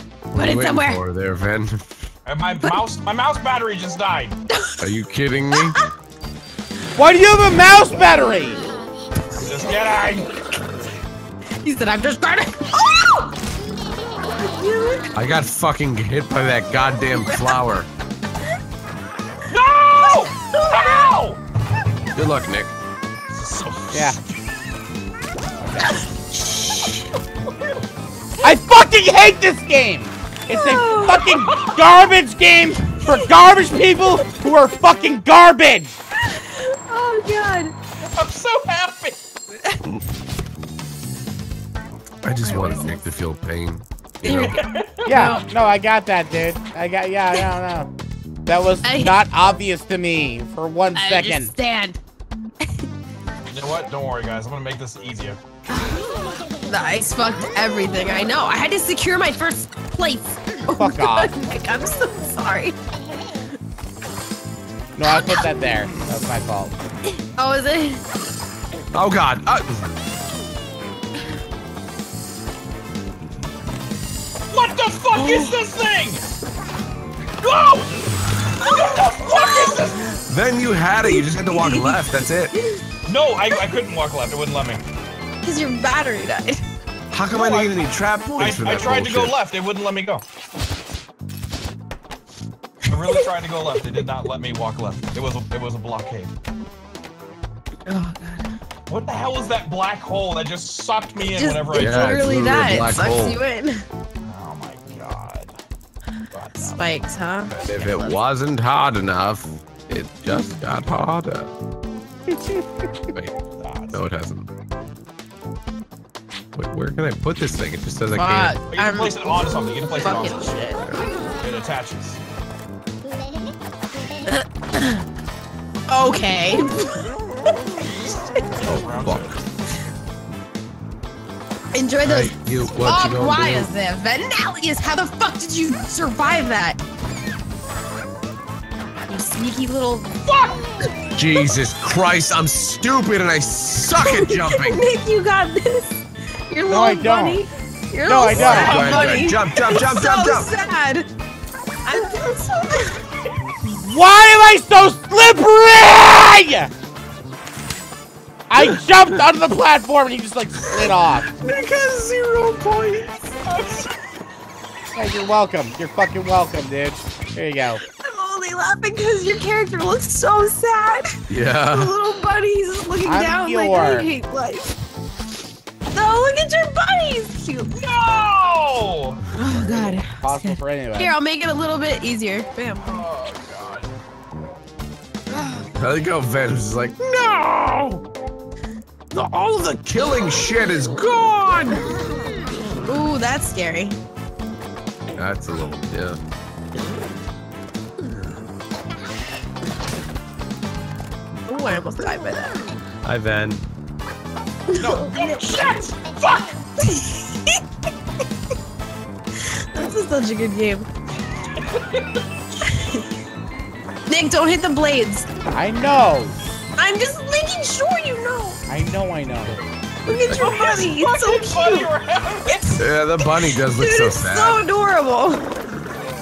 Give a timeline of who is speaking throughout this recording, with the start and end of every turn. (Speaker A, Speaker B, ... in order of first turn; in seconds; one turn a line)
Speaker A: 0.3-1.8
Speaker B: 0.3-1.0
Speaker C: 2.3-4.4
Speaker B: 4.5-4.9
Speaker A: 4.8-5.8
Speaker D: 7.0-8.6
Speaker C: 9.4-10.3
Speaker B: 11.6-13.3
Speaker B: 14.4-15.2
Speaker A: 15.2-17.9
Speaker B: 17.1-17.6
Speaker C: 19.5-21.4
Speaker B: 20.4-21.1
Speaker A: 22.1-22.7
Speaker C: 23.3-24.4
Speaker D: 23.9-24.2
Speaker D: 25.6-26.0
Speaker A: 26.3-27.1
Speaker D: 28.4-36.0
Speaker B: 30.5-31.5
Speaker C: 31.3-31.8
Speaker B: 33.0-33.3
Speaker B: 36.2-37.7
Speaker C: 38.1-39.2
Speaker B: 39.6-40.0
Speaker A: 42.2-44.6
Speaker B: 42.4-43.0
Speaker C: 44.2-45.4
Speaker B: 44.3-45.4
Speaker D: 45.0-47.9
Speaker D: 48.5-51.5
Speaker B: 48.8-49.2
Speaker B: 50.9-52.0
Speaker C: 53.5-55.4
Speaker B: 55.7-62.8
Speaker D: 60.7-61.3
Speaker D: 65.0-66.7
Speaker B: 65.1-65.6
Speaker B: 67.1-68.0
Speaker A: 68.9-69.7
Speaker C: 74.5-76.2
Speaker B: 75.2-75.6
Speaker C: 77.4-80.2
Speaker A: 80.3-82.5
Speaker B: 81.0-82.0
Speaker B: 82.5-82.8
Speaker C: 83.1-84.8
Speaker B: 85.4-86.6
Speaker A: 87.1-89.3
Speaker C: 87.3-90.2
Speaker C: 92.9-96.3
Speaker B: 97.9-98.5
Speaker C: 98.9-102.4
Speaker B: 101.2-103.8
Speaker A: 101.7-103.4
Speaker C: 104.2-105.6
Speaker C: 106.3-106.9
Speaker B: 106.6-108.2
Speaker A: 107.5-111.5
Speaker D: 112.3-112.7
Speaker C: 113.6-114.0
Speaker A: 113.9-114.5
Speaker A: 116.5-118.6
Speaker B: 118.2-120.8
Speaker C: 118.7-120.6
Speaker C: 121.3-122.2
Speaker B: 124.3-125.0
Speaker B: 125.9-126.9
Speaker C: 128.6-129.4
Speaker A: 128.6-129.4
Speaker B: 131.7-136.8
Speaker A: 132.0-133.7
Speaker B: 139.1-140.2
Speaker C: 140.2-140.7
Speaker A: 141.2-144.8
Speaker B: 144.0-151.1
Speaker D: 146.7-147.4
Speaker D: 148.0-148.9
Speaker A: 148.3-150.5
Speaker C: 148.6-149.3
Speaker B: 151.8-153.1
Speaker D: 153.7-156.7
Speaker D: 158.5-161.3
Speaker A: 160.7-163.1
Speaker C: 163.5-163.9
Speaker D: 164.9-167.8
Speaker B: 168.0-171.1
Speaker A: 171.3-171.9
Speaker B: 171.7-174.7
Speaker D: 173.0-174.1
Speaker B: 175.9-177.7
Speaker C: 177.7-179.2
Speaker B: 179.3-183.0
Speaker D: 179.5-181.2
Speaker C: 182.8-184.0
Speaker B: 185.3-185.7
Speaker A: 185.8-188.0
Speaker A: 189.1-191.9
Speaker B: 192.8-194.0
Speaker A: 195.2-196.2
Speaker B: 201.5-202.6
Speaker A: 203.0-203.6
Speaker B: 204.7-205.1
Speaker C: 204.8-206.6
Speaker B: 206.8-207.6
Speaker B: 209.4-210.9
Speaker C: 211.3-212.2
Speaker B: 212.7-213.1
Speaker B: 214.1-215.3
Speaker D: 215.5-216.4
Speaker B: 216.8-218.6
Speaker D: 218.7-219.6
Speaker A: 219.5-220.7
Speaker B: 220.1-221.9
Speaker C: 220.3-222.7
Speaker B: 222.5-225.4
Speaker A: 222.8-224.6